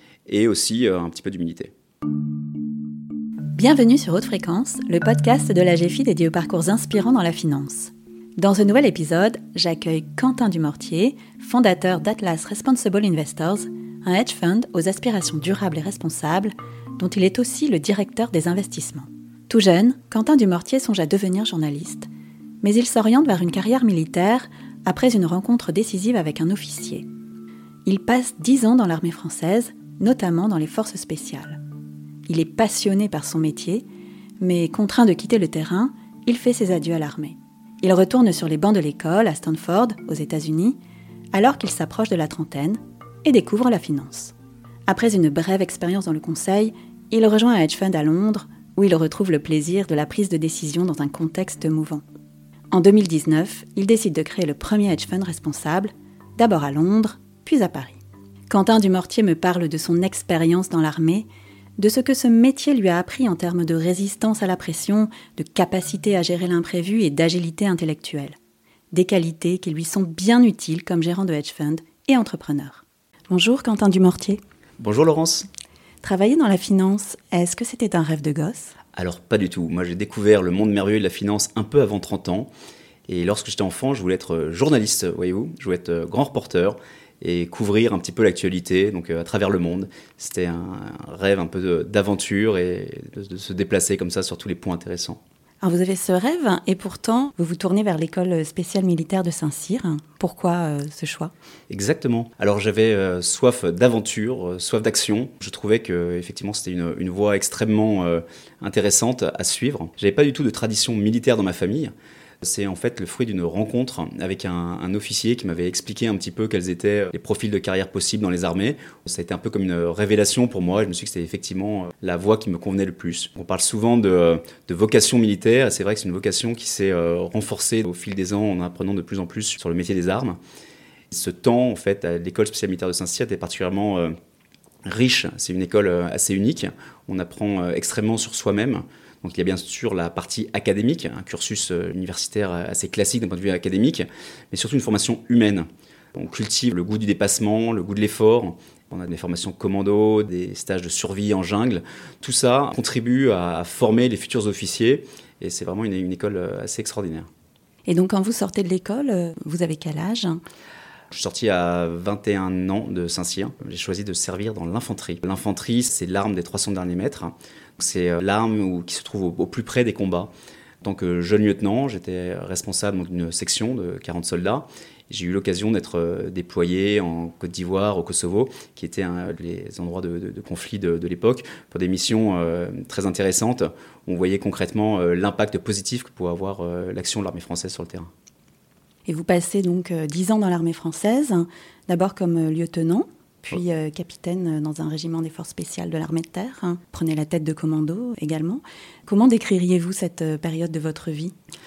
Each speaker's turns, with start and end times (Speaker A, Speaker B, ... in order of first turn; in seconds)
Speaker A: 0.2-1.7, 74.8-75.5, 78.9-82.5, 83.1-95.2, 101.7-130.4, 131.1-134.1, 134.8-157.3, 161.1-170.3, 170.8-188.1
Speaker B: 3.5-22.1, 22.6-27.1, 27.9-31.6, 32.3-33.8, 34.4-40.8, 41.3-44.3, 44.9-52.0, 52.7-61.3, 61.8-68.3, 68.9-74.4, 76.0-78.7, 95.6-101.3, 157.9-160.4, 189.1-201.3